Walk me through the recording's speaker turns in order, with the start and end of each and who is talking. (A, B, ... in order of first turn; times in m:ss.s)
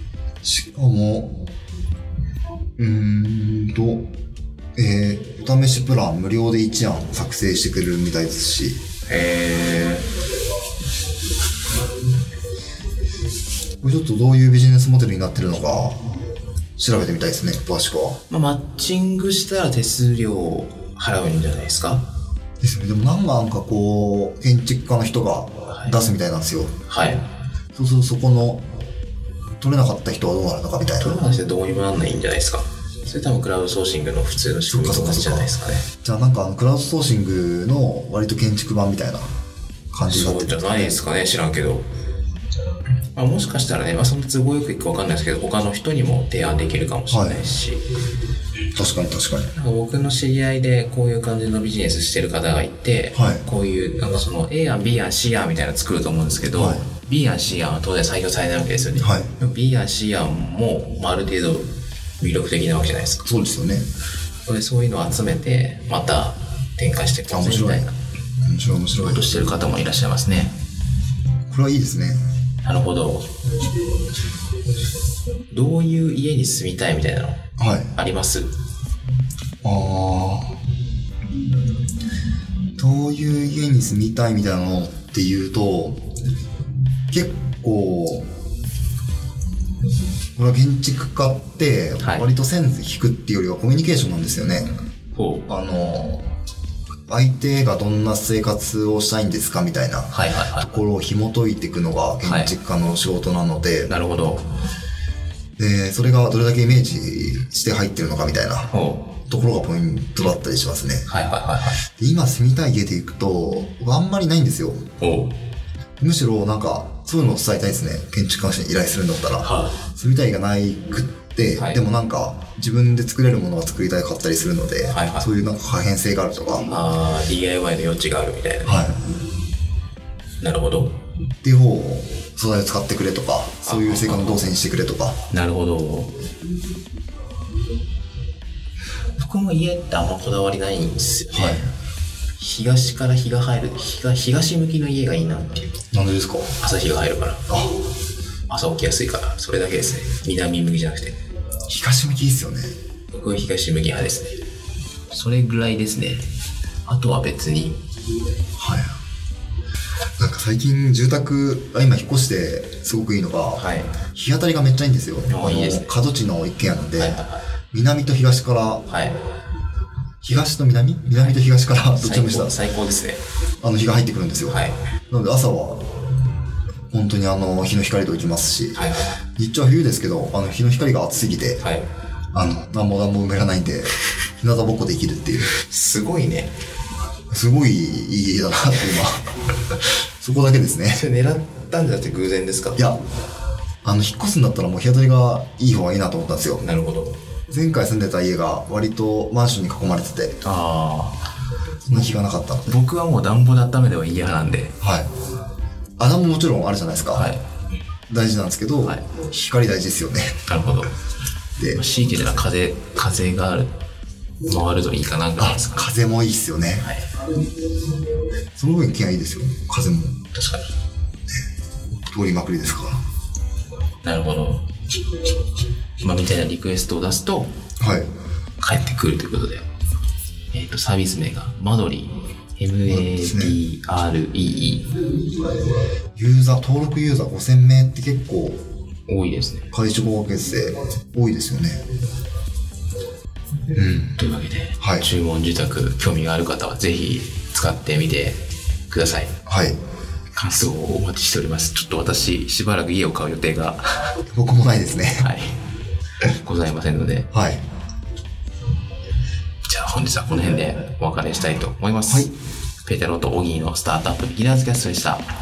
0:00.4-0:01.4 A
0:02.8-0:04.1 A
0:04.8-0:08.8 A
0:09.1-0:10.1 B
0:13.8-0:16.0 A
0:16.8-0:18.2 A
0:18.3-0:22.1 B
0:22.6-0:26.7 A
0:26.9-0:27.2 B
0:27.7-0:28.6 A
0:29.6-0:31.2 A
0:31.0-0:35.8 B
0:34.7-0:35.5 A
0:36.0-0:39.2 A
0:39.9-0:41.0 A
0:40.1-0:41.8 B
0:43.1-0:47.8 B
0:47.1-0:47.4 A
0:48.7-0:49.5 A
0:49.5-1:01.7 B
0:53.1-0:53.4 A
0:56.5-0:56.8 A
0:59.0-0:59.3 A
1:02.2-1:03.3 B
1:03.2-1:03.8 A
1:04.4-1:07.9 B
1:07.3-1:07.9 A
1:08.4-1:09.2 A
1:09.0-1:10.5 B
1:11.5-1:12.2 A
1:12.6-1:13.3 B
1:15.5-1:17.4 B
1:17.6-1:17.9 A
1:17.9-1:18.5 B
1:19.6-1:20.6 A
1:22.8-1:26.0 A
1:27.1-1:28.3 A
1:30.4-1:34.7 A
1:32.0-1:32.3 B
1:35.1-1:35.4 B
1:35.5-1:36.2 A
1:37.1-1:43.9 A
1:40.1-1:40.7 B
1:42.2-1:42.5 B
1:43.9-1:44.4 B
1:45.6-1:48.7 A
1:48.7-1:49.1 B
1:49.3-1:51.0 A
1:51.1-1:51.8 B
1:52.0-1:54.8 A
1:55.0-1:55.4 B
1:56.0-2:06.7 A
1:59.4-1:59.8 B
2:01.6-2:01.8 B
2:04.9-2:05.3 B
2:06.6-2:08.9 B
2:08.6-2:09.0 A
2:10.4-2:11.0 B
2:11.4-2:15.2 A
2:13.6-2:14.5 B
2:15.3-2:16.1 B
2:19.2-2:21.7 B
2:21.3-2:21.7 A
2:22.4-2:25.8 B
2:25.9-2:26.5 A
2:26.6-2:27.5 B
2:27.5-2:27.7 A
2:28.5-2:31.2 B
2:31.7-2:32.7 A
2:33.1-2:34.4 B
2:35.1-2:36.2 B
2:36.8-2:37.8 B
2:38.6-2:38.9 A
2:40.2-2:43.6 A
2:43.6-2:43.9 B
2:44.1-2:47.2 A
2:45.3-2:45.9 B
2:47.0-2:47.4 B
2:47.7-2:48.8 A
2:48.9-2:49.2 B
2:50.2-2:52.6 A
2:52.0-2:53.2 B
2:53.6-2:54.6 A
2:54.5-2:54.8 B
2:55.1-2:55.9 A
2:56.9-2:58.8 A
2:58.8-2:59.1 B
2:59.4-3:01.6 A
3:01.6-3:01.9 B
3:02.3-3:05.5 A
3:05.5-3:06.5 B
3:07.3-3:09.3 A
3:10.2-3:11.0 A
3:10.9-3:12.9 B
3:13.8-3:16.6 A
3:16.6-3:17.2 B
3:17.5-3:20.4 A
3:20.4-3:21.2 B
3:21.9-3:22.8 A
3:21.9-3:24.7 B
3:24.8-3:25.1 A
3:26.0-3:27.3 A
3:27.1-3:27.4 B
3:28.1-3:30.4 A
3:30.5-3:30.9 B
3:31.7-3:33.7 B
3:34.4-3:35.9 B
3:35.4-3:36.9 A
3:36.8-3:37.1 B
3:38.6-3:40.2 A
3:40.3-3:40.6 B
3:42.1-3:43.0 A
3:44.0-3:44.6 B
3:46.0-3:47.5 B
3:47.8-3:48.1 A
3:48.6-3:49.6 B
3:50.5-3:54.9 B
3:52.8-3:53.6 A
3:56.2-3:58.6 A
3:59.1-3:59.7 B
3:59.7-4:01.8 A
4:03.7-4:04.2 A
4:04.1-4:09.3 B
4:04.8-4:05.1 A
4:09.4-4:09.8 A
4:10.3-4:14.2 B
4:14.3-4:15.3 A
4:15.2-4:15.6 B
4:16.4-4:17.3 B
4:17.3-4:17.6 A
4:19.7-4:22.3 B
4:22.0-4:22.3 A
4:22.8-4:25.2 B